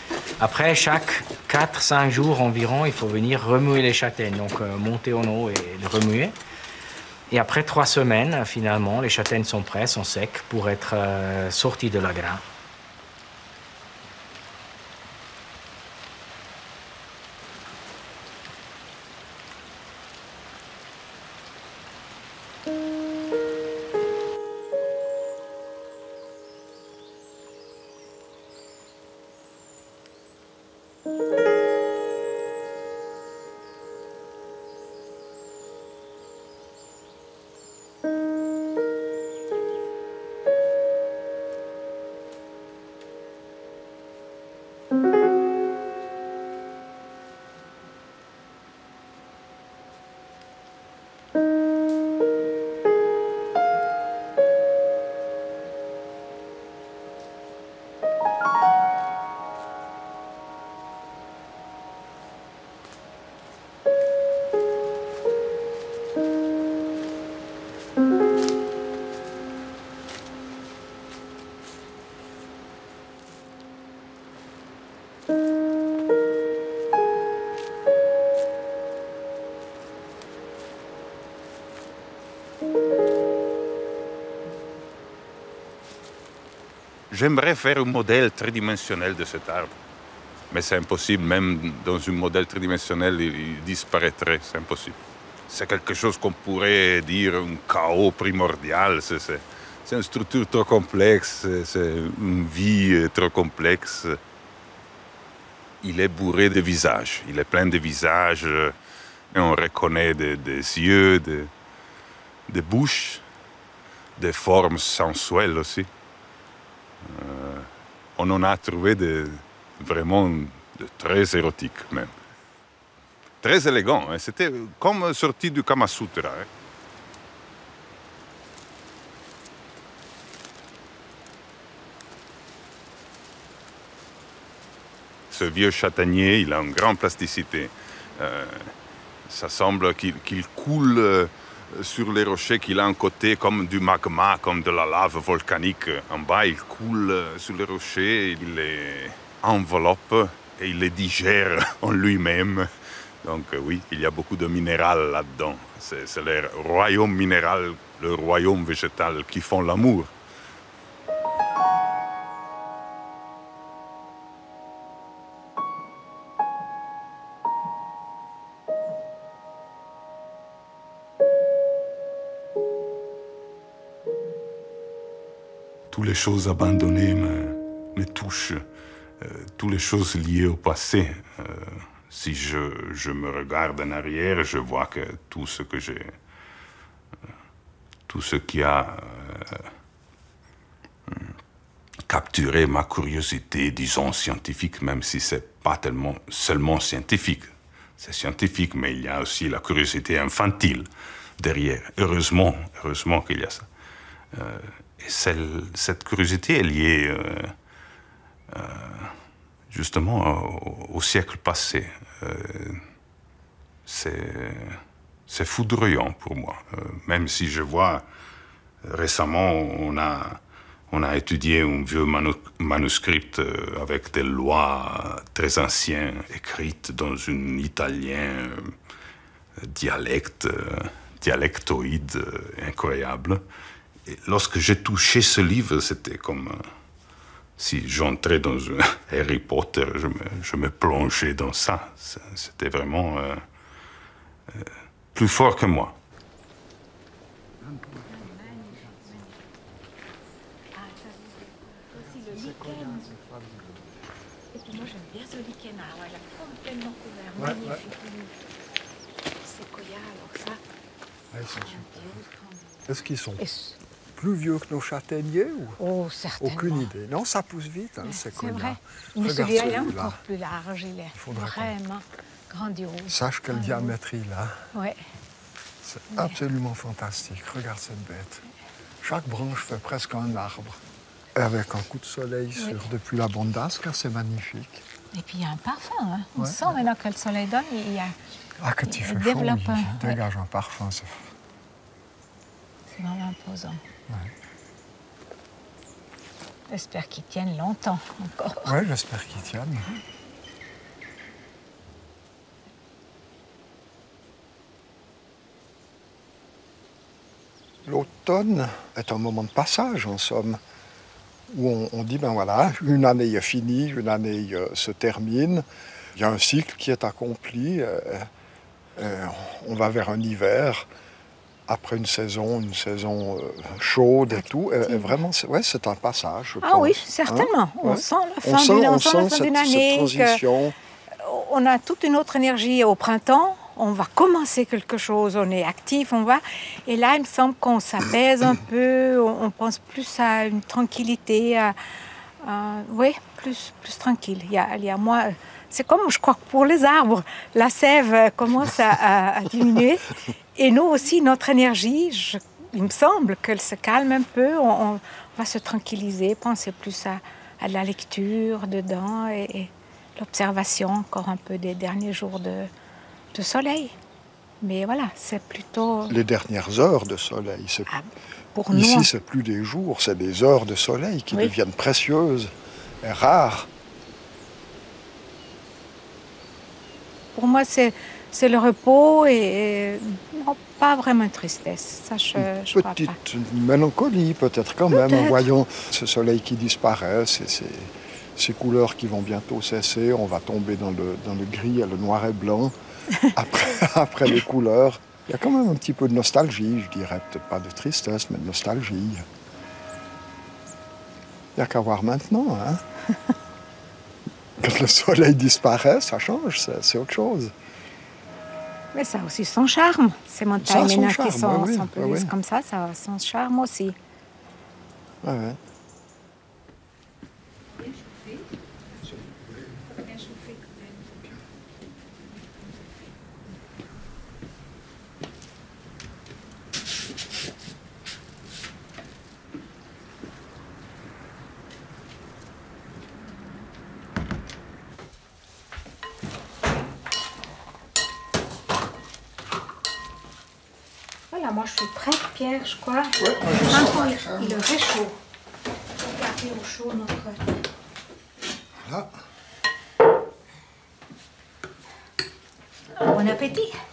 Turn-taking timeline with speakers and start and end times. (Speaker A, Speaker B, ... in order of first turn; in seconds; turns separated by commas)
Speaker A: 0.4-6.3, Speaker A: 7.3-12.4, Speaker B: 87.1-89.7, Speaker B: 90.5-104.2, Speaker B: 105.8-108.8, Speaker B: 109.3-111.5, Speaker B: 112.5-113.2, Speaker B: 114.2-115.9, Speaker B: 117.0-122.2, Speaker B: 123.4-126.5, Speaker B: 135.3-138.8, Speaker B: 139.3-152.7, Speaker B: 153.2-160.2, Speaker B: 175.9-178.6, Speaker B: 179.2-186.2, Speaker B: 188.1-189.7, Speaker B: 191.1-191.4, Speaker B: 192.1-203.7, Speaker B: 204.3-207.6, Speaker B: 208.5-209.2, Speaker B: 209.7-212.8, Speaker B: 213.9-218.1, Speaker B: 218.8-228.8, Speaker B: 229.6-233.4, Speaker B: 234.1-236.7, Speaker B: 237.6-243.4, Speaker B: 244.5-246.0, Speaker C: 247.7-248.2, Speaker D: 248.4-248.8, Speaker D: 250.7-253.1, Speaker C: 252.1-253.9, Speaker D: 254.5-258.3, Speaker C: 257.4-257.8, Speaker D: 259.4-260.6, Speaker C: 261.3-262.2, Speaker D: 261.5-262.8, Speaker C: 262.9-263.4, Speaker D: 263.4-263.8, Speaker C: 264.1-265.8, Speaker D: 265.8-266.9, Speaker C: 266.4-270.2, Speaker D: 268.0-273.9, Speaker C: 271.1-271.7, Speaker C: 273.1-274.7, Speaker D: 274.7-275.0, Speaker C: 275.8-278.4, Speaker C: 279.0-280.8, Speaker C: 281.4-284.9, Speaker D: 285.1-288.1, Speaker C: 286.4-286.7, Speaker C: 288.6-291.3, Speaker D: 288.9-290.2, Speaker D: 292.9-293.8, Speaker D: 296.7-298.8, Speaker C: 298.6-299.9, Speaker C: 307.8-310.6, Speaker C: 311.5-318.3, Speaker C: 319.0-320.9, Speaker C: 321.7-330.8, Speaker D: 324.3-325.2, Speaker D: 326.6-330.4, Speaker D: 331.2-341.8, Speaker D: 342.4-362.7, Speaker D: 363.3-363.9, Speaker D: 364.6-366.1, Speaker C: 366.1-367.9, Speaker D: 367.9-369.1, Speaker C: 368.7-373.7, Speaker D: 377.4-383.2, Speaker C: 382.4-392.7, Speaker D: 384.9-385.4, Speaker C: 393.3-399.2, Speaker C: 401.6-402.8, Speaker C: 404.6-407.5, Speaker D: 408.9-414.0, Speaker C: 410.6-412.3, Speaker C: 415.2-415.6, Speaker D: 441.3-445.2, Speaker C: 443.2-444.6, Speaker D: 446.0-447.5, Speaker C: 448.8-449.2, Speaker D: 453.0-453.8